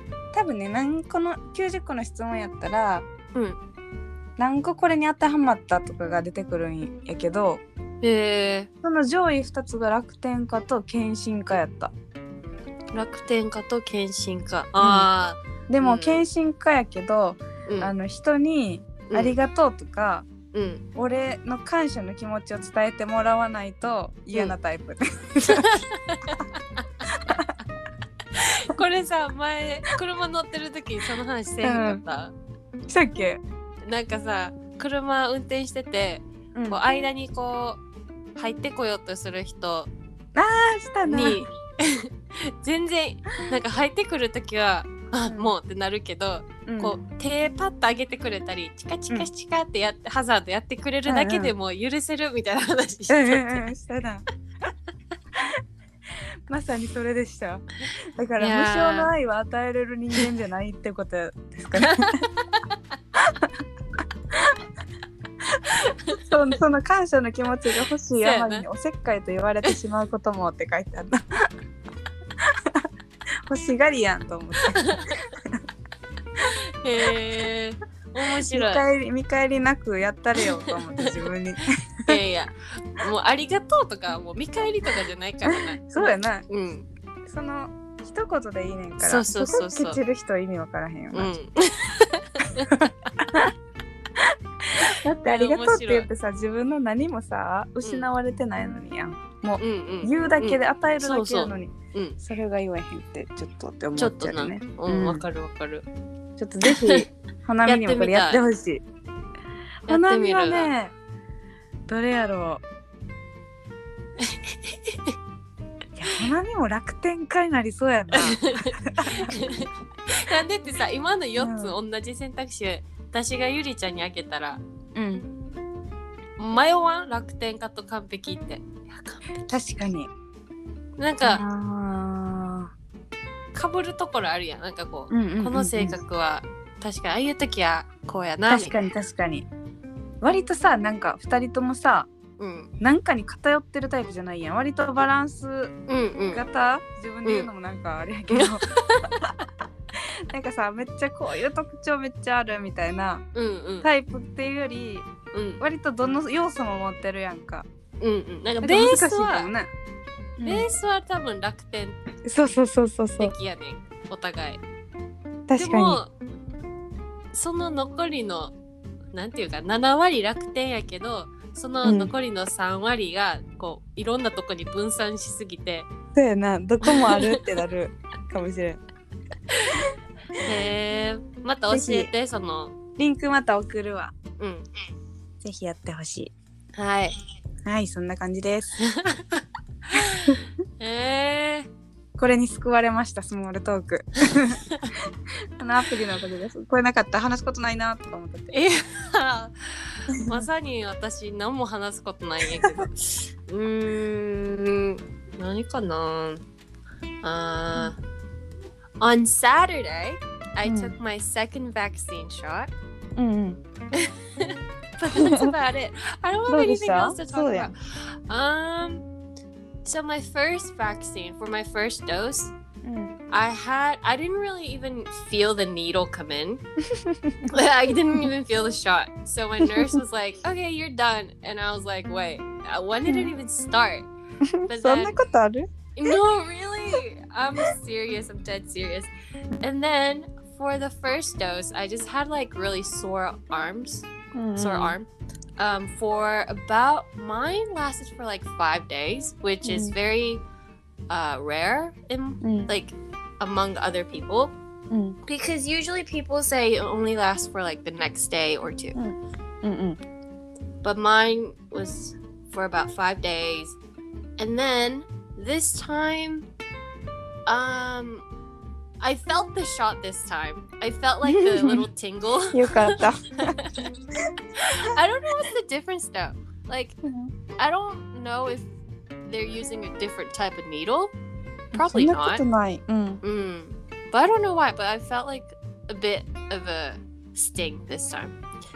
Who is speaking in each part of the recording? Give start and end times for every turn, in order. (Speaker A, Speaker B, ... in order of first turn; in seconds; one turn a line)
Speaker A: 0.3-3.0
Speaker B: 3.3-3.6
Speaker A: 4.4-7.6
Speaker B: 8.0-8.7
Speaker A: 8.8-11.9
Speaker B: 12.9-16.2
Speaker A: 14.8-15.1
Speaker A: 15.7-20.3
Speaker B: 19.1-19.4
Speaker B: 20.5-20.8
Speaker A: 20.9-25.7
Speaker B: 25.4-26.8
Speaker A: 27.1-27.5
Speaker B: 28.3-32.3
Speaker A: 31.6-32.0
Speaker A: 32.9-33.4
Speaker B: 33.9-37.8
Speaker A: 36.5-36.8
Speaker B: 38.4-39.9
Speaker A: 40.3-41.4
Speaker B: 41.1-53.7
Speaker A: 46.6-47.0
Speaker A: 51.1-51.5
Speaker A: 53.1-54.2
Speaker A: 56.5-62.2
Speaker B: 58.4-59.1
Speaker B: 61.8-62.6
Speaker A: 63.2-63.5
Speaker A: 64.3-64.6
Speaker B: 65.7-66.2
Speaker A: 66.1-71.2
Speaker B: 68.2-68.7
Speaker A: 72.4-72.9
Speaker A: 73.5-75.6
Speaker B: 74.7-75.3
Speaker B: 76.4-78.8
Speaker A: 78.5-82.2
Speaker B: 80.4-81.1
Speaker B: 82.1-86.9
Speaker A: 85.5-86.4
Speaker A: 87.2-91.3
Speaker B: 89.0-90.0
Speaker B: 91.1-93.4
Speaker A: 92.6-93.5
Speaker A: 94.2-105.2
Speaker B: 95.2-96.1
Speaker B: 99.6-102.2
Speaker B: 104.0-105.8
Speaker A: 106.4-108.8
Speaker B: 106.6-107.0
Speaker B: 107.6-108.4
Speaker B: 109.9-110.7
Speaker A: 109.9-110.9
Speaker A: 111.9-112.6
Speaker B: 114.2-115.1
Speaker A: 116.0-119.4
Speaker B: 118.1-124.6
Speaker A: 121.4-121.7
Speaker A: 124.9-125.3
Speaker B: 126.4-129.2
Speaker A: 129.5-130.1
Speaker B: 131.0-131.4
Speaker A: 131.2-132.7
Speaker B: 133.5-138.9
Speaker A: 135.1-135.9
Speaker A: 138.5-139.4
Speaker A: 140.2-142.1
Speaker B: 142.4-142.7
Speaker A: 142.8-145.7
Speaker B: 145.9-146.4
Speaker A: 146.3-148.7
Speaker B: 148.3-149.2
Speaker A: 150.3-153.2
Speaker B: 153.3-153.9
Speaker A: 153.8-155.1
Speaker B: 155.3-155.6
Speaker A: 155.6-157.7
Speaker B: 158.0-159.5
Speaker A: 158.6-159.7
Speaker A: 160.4-160.6
Speaker B: 160.4-162.0
Speaker A: 162.2-163.3
Speaker B: 163.2-164.6
Speaker A: 165.5-166.0
Speaker B: 165.6-166.1
Speaker B: 167.3-168.5
Speaker B: 169.1-175.9
Speaker A: 171.8-172.1
Speaker A: 176.1-178.8
Speaker B: 176.8-177.4
Speaker B: 179.5-179.8
Speaker B: 180.4-182.7
Speaker A: 181.7-182.1
Speaker A: 183.0-184.1
Speaker B: 184.4-184.6
Speaker A: 185.4-186.3
Speaker B: 186.8-187.1
Speaker A: 187.7-188.8
Speaker B: 188.8-191.7
Speaker A: 192.2-195.0
Speaker A: 195.6-198.5
Speaker B: 198.5-206.4
Speaker A: 200.2-200.4
Speaker B: 207.2-208.0
Speaker B: 209.0-212.7
Speaker A: 210.6-210.9
Speaker A: 213.2-213.6
Speaker B: 213.9-219.0
Speaker A: 215.2-215.5
Speaker A: 216.5-217.7
Speaker B: 219.8-222.5
Speaker A: 222.8-223.1
Speaker B: 223.3-226.6
Speaker A: 226.9-227.5
Speaker B: 227.5-234.1
Speaker A: 233.1-233.3
Speaker A: 234.5-235.7
Speaker B: 234.7-235.2
Speaker B: 235.9-239.1
Speaker B: 239.6-250.4
Speaker A: 244.3-245.0
Speaker A: 249.6-249.9
Speaker B: 251.1-254.5
Speaker A: 252.4-252.7
Speaker A: 254.9-255.2
Speaker B: 255.2-259.0
Speaker A: 258.9-260.0
Speaker B: 260.8-263.8
Speaker B: 264.4-266.4
Speaker B: 267.5-268.2
Speaker B: 269.0-273.9
Speaker A: 271.3-271.8
Speaker A: 272.5-273.6
Speaker B: 274.6-277.0
Speaker A: 274.8-275.4
Speaker A: 277.0-277.3
Speaker B: 277.6-278.7
Speaker B: 279.3-281.1
Speaker B: 281.7-282.4
Speaker A: 281.7-283.2
Speaker B: 283.2-288.3